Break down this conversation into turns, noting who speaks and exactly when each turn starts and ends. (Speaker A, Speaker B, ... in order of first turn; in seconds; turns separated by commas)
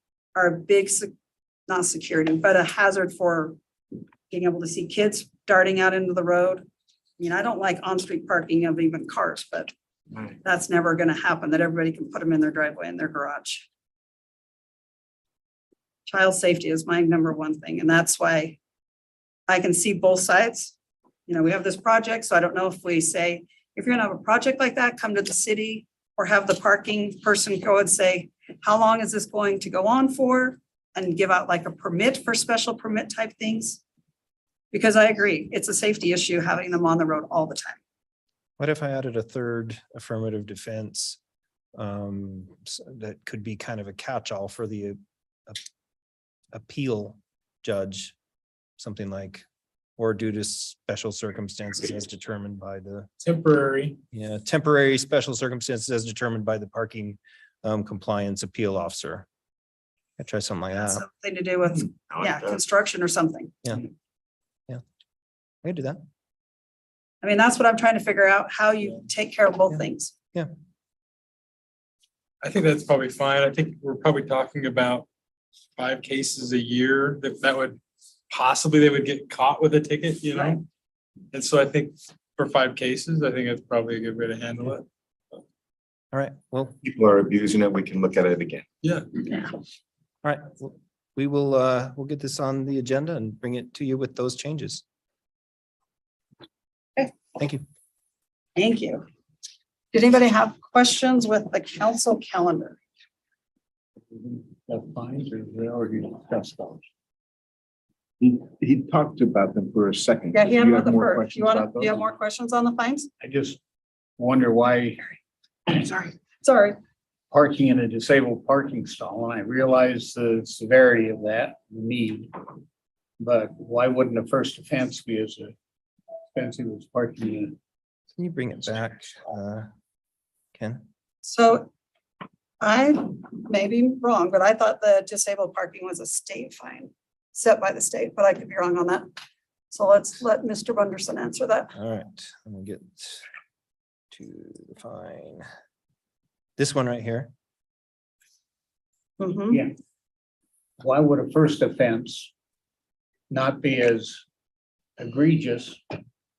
Speaker A: 0.3-1.1, Speaker A: 1.7-3.6, Speaker A: 4.3-6.7, Speaker A: 7.2-9.7, Speaker A: 10.4-13.7, Speaker A: 16.1-18.6, Speaker A: 19.5-20.8, Speaker A: 21.3-33.8, Speaker A: 34.7-37.8, Speaker B: 38.6-41.2, Speaker B: 41.8-45.6, Speaker B: 46.5-48.1, Speaker B: 48.8-49.5, Speaker B: 50.0-53.1, Speaker C: 53.2-54.0, Speaker B: 54.1-59.3, Speaker B: 60.2-61.0, Speaker A: 60.8-63.5, Speaker D: 62.1-62.6, Speaker B: 65.6-66.0, Speaker A: 67.2-70.1, Speaker C: 72.4-75.1, Speaker C: 75.8-80.6, Speaker C: 81.3-84.8, Speaker B: 86.1-86.8, Speaker D: 86.8-88.7, Speaker B: 90.2-94.8, Speaker B: 97.3-97.6, Speaker A: 98.6-99.1, Speaker A: 99.9-102.8, Speaker E: 104.1-106.8, Speaker D: 108.2-111.8, Speaker A: 110.3-113.1, Speaker E: 113.2-113.6, Speaker E: 114.2-116.2, Speaker A: 116.4-116.8, Speaker E: 117.3-122.4, Speaker E: 123.2-125.5, Speaker E: 126.3-127.6, Speaker B: 128.2-129.7, Speaker B: 130.6-130.8, Speaker A: 131.2-131.7, Speaker A: 132.6-139.1, Speaker A: 139.7-141.7, Speaker B: 141.8-143.2, Speaker B: 144.1-145.5, Speaker B: 146.6-147.3, Speaker A: 149.2-149.6, Speaker E: 150.8-152.3, Speaker E: 153.3-154.2, Speaker E: 155.0-155.8